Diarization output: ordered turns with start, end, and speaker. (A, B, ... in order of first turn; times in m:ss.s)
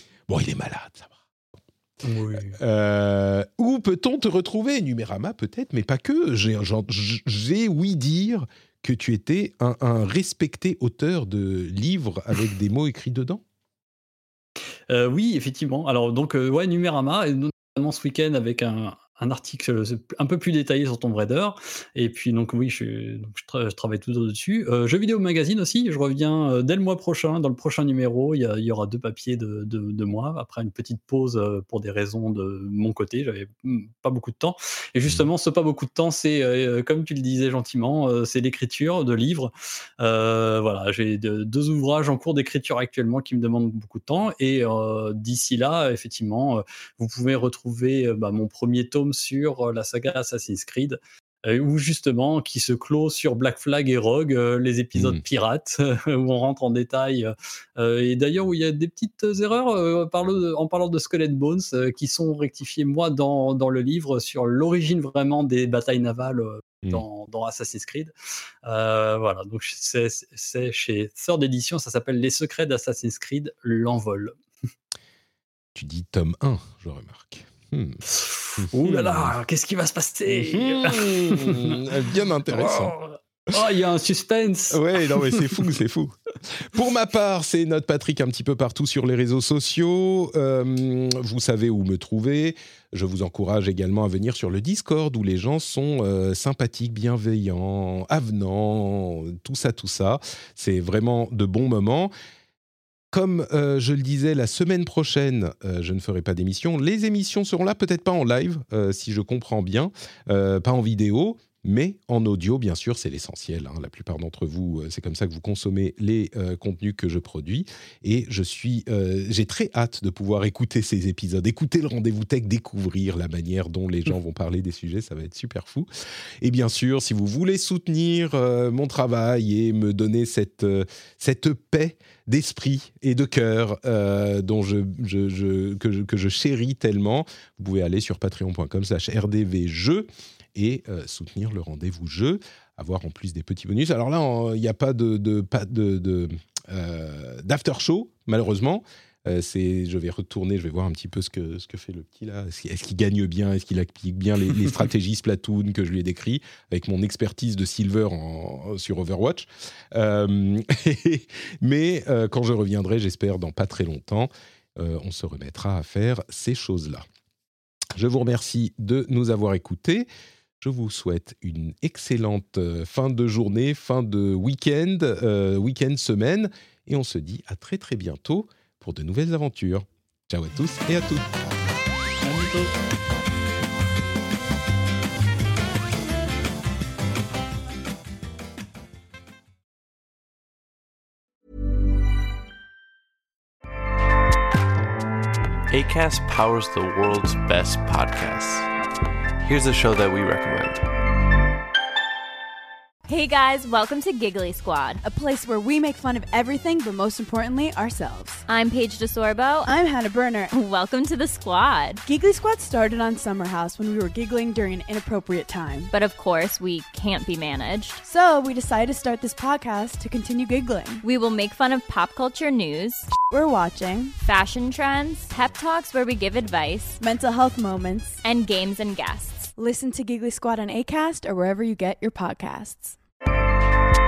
0:00.3-0:01.2 A
0:02.0-0:02.6 B
0:02.4-0:13.4 A
0:14.9-1:08.1 B
0:55.0-0:55.2 A
1:08.6-1:14.4 B
1:15.8-1:18.0 A
1:18.1-1:21.8 B
1:18.6-1:19.3 A
1:20.3-1:22.9 A
1:22.5-1:25.7 B
1:24.7-1:42.1 A
1:43.1-2:05.9 A
2:06.4-2:47.1 A
2:48.0-2:50.1 A
2:50.6-3:01.3 A
3:02.2-3:02.7 B
3:15.7-3:18.7 C
3:19.4-3:20.8 C
3:23.1-3:25.0 D
3:25.0-3:28.4 E
3:28.5-3:29.7 D
3:29.6-3:30.5 E
3:30.5-3:32.0 D
3:32.1-3:35.9 E
3:35.9-3:38.0 D
3:38.0-3:41.0 E
3:41.0-3:43.1 D
3:43.3-3:44.2 E
3:44.2-3:47.0 D
3:47.0-3:48.2 E
3:48.2-3:49.5 D
3:49.6-3:53.0 E